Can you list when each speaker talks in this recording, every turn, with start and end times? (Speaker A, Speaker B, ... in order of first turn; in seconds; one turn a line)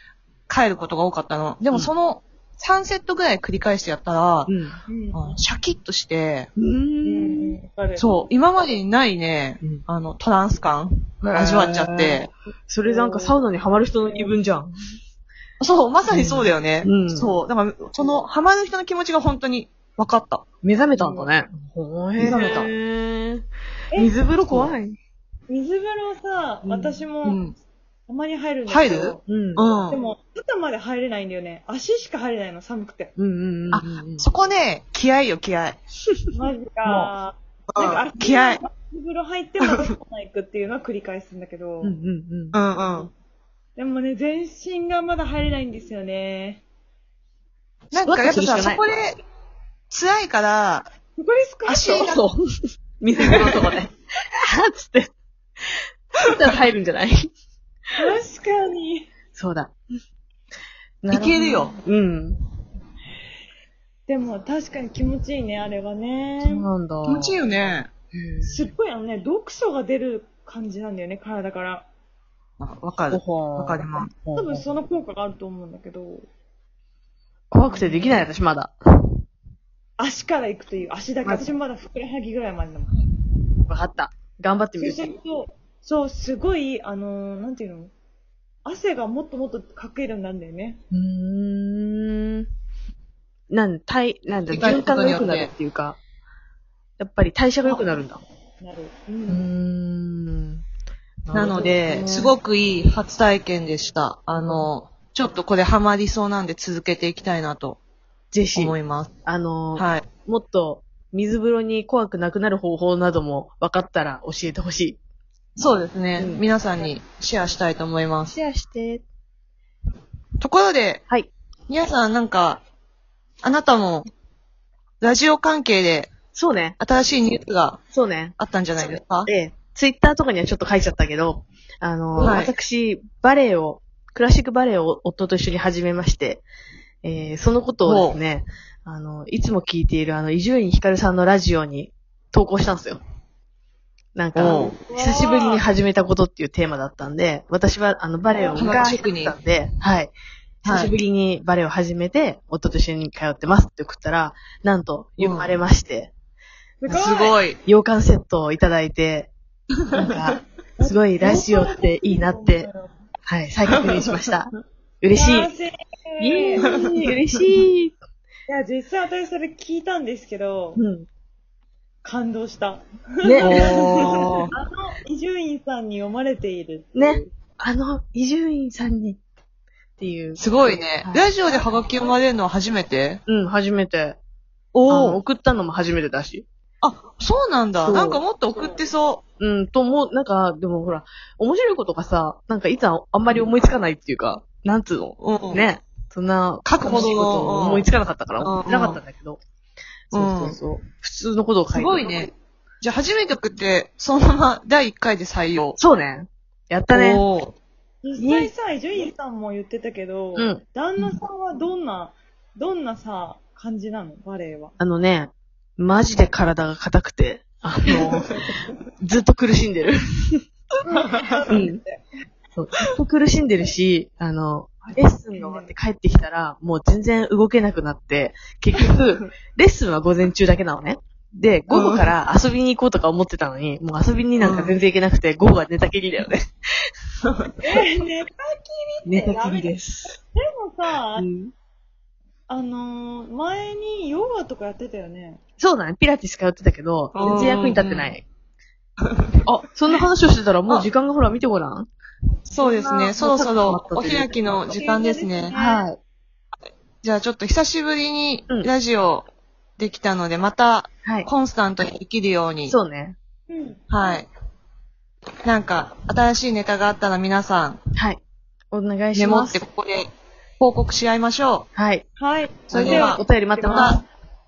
Speaker A: 0.5-4.5
Speaker B: 4.5-4.8
Speaker C: 4.9-5.4
Speaker A: 5.1-6.5
Speaker B: 6.6-7.6
Speaker C: 7.0-8.2
Speaker A: 8.0-12.3
Speaker B: 11.2-14.7
Speaker C: 12.8-14.3
Speaker A: 15.6-20.4
Speaker B: 16.1-17.3
Speaker B: 20.6-25.0
Speaker C: 20.9-21.3
Speaker A: 22.2-22.7
Speaker A: 24.5-24.7
Speaker C: 25.5-27.4
Speaker A: 26.7-27.6
Speaker C: 28.1-29.2
Speaker A: 28.7-30.0
Speaker B: 29.3-29.6
Speaker C: 29.9-33.1
Speaker B: 33.2-34.3
Speaker A: 33.7-35.8
Speaker C: 36.3-42.0
Speaker B: 36.9-37.1
Speaker A: 37.7-38.6
Speaker B: 41.8-42.6
Speaker A: 42.5-43.1
Speaker C: 43.8-46.6
Speaker A: 47.9-49.2
Speaker B: 48.0-48.9
Speaker A: 49.9-50.9
Speaker C: 51.2-52.2
Speaker A: 51.7-52.1
Speaker B: 52.0-52.4
Speaker B: 53.0-53.9
Speaker A: 53.3-53.6
Speaker B: 54.5-55.1
Speaker B: 55.7-57.3
Speaker C: 58.0-59.1
Speaker B: 59.4-59.7
Speaker B: 61.0-62.4
Speaker A: 61.1-61.8
Speaker C: 64.1-66.7
Speaker B: 66.4-67.5
Speaker A: 67.0-67.9
Speaker B: 68.1-68.7
Speaker C: 68.4-71.9
Speaker A: 72.6-74.1
Speaker B: 73.1-74.7
Speaker C: 74.3-76.3
Speaker B: 77.5-78.7
Speaker C: 77.7-78.3
Speaker C: 80.0-83.0
Speaker B: 83.7-85.1
Speaker C: 84.8-87.9
Speaker C: 88.7-90.8
Speaker B: 90.9-92.5
Speaker B: 93.5-96.0
Speaker A: 94.5-95.5
Speaker B: 97.0-98.2
Speaker C: 98.6-99.5
Speaker B: 99.3-100.6
Speaker B: 101.2-102.3
Speaker A: 101.3-107.8
Speaker B: 104.4-104.7
Speaker B: 108.3-115.0
Speaker A: 108.5-109.1
Speaker A: 109.8-110.1
Speaker A: 115.6-118.3
Speaker B: 116.2-116.9
Speaker B: 118.3-119.0
Speaker A: 120.4-121.0
Speaker A: 121.7-122.6
Speaker A: 123.4-124.1
Speaker A: 125.0-126.1
Speaker B: 126.3-126.8
Speaker A: 126.8-127.8
Speaker B: 127.9-136.4
Speaker A: 128.4-129.3
Speaker A: 132.2-132.5
Speaker B: 137.0-143.0
Speaker A: 137.8-138.2
Speaker B: 144.2-156.1
Speaker A: 144.3-144.8
Speaker C: 144.4-145.7
Speaker A: 148.5-149.4
Speaker A: 150.6-150.9
Speaker A: 155.2-155.5
Speaker C: 156.8-157.4
Speaker A: 156.9-157.6
Speaker B: 157.7-159.3
Speaker A: 159.9-160.2
Speaker B: 159.9-162.7
Speaker C: 160.8-163.0
Speaker B: 163.3-165.5
Speaker A: 163.7-164.3
Speaker C: 165.1-166.7
Speaker B: 166.2-168.0
Speaker A: 166.6-167.1
Speaker C: 168.5-170.8
Speaker B: 170.8-171.1
Speaker C: 172.0-177.2
Speaker B: 173.2-173.9
Speaker A: 173.4-174.5
Speaker B: 176.9-179.2
Speaker B: 180.0-181.3
Speaker A: 180.4-183.2
Speaker B: 183.3-184.2
Speaker A: 184.7-185.2
Speaker B: 184.9-186.4
Speaker A: 186.8-189.2
Speaker B: 187.8-188.2
Speaker B: 189.4-199.4
Speaker A: 195.2-195.7
Speaker A: 196.7-199.0
Speaker B: 200.1-202.3
Speaker A: 200.1-200.6
Speaker A: 201.7-205.8
Speaker B: 205.8-207.2
Speaker A: 206.9-207.5
Speaker C: 208.0-214.7
Speaker B: 208.2-208.5
Speaker B: 210.4-210.6
Speaker B: 214.8-218.3
Speaker B: 219.0-220.4
Speaker C: 220.9-222.0
Speaker B: 221.5-221.8
Speaker B: 222.6-236.5
Speaker C: 224.8-225.7
Speaker A: 231.7-232.1
Speaker A: 234.4-234.8
Speaker C: 237.6-239.7
Speaker B: 239.1-240.2
Speaker C: 240.3-241.3
Speaker B: 241.2-241.5
Speaker C: 242.5-245.4
Speaker B: 245.6-248.2
Speaker A: 247.1-248.2
Speaker C: 247.2-247.5
Speaker A: 249.0-249.3
Speaker B: 249.4-251.9
Speaker A: 252.5-255.5
Speaker B: 252.6-254.4
Speaker C: 254.7-255.8
Speaker B: 255.5-256.0
Speaker A: 257.0-262.8
Speaker B: 262.7-263.2
Speaker C: 263.5-263.8
Speaker A: 263.9-264.3
Speaker A: 265.4-267.8
Speaker B: 268.0-268.2
Speaker B: 268.7-269.6
Speaker A: 269.1-270.1
Speaker A: 270.6-271.7
Speaker B: 271.8-272.1
Speaker C: 272.2-274.0
Speaker A: 272.7-274.0
Speaker B: 272.7-274.0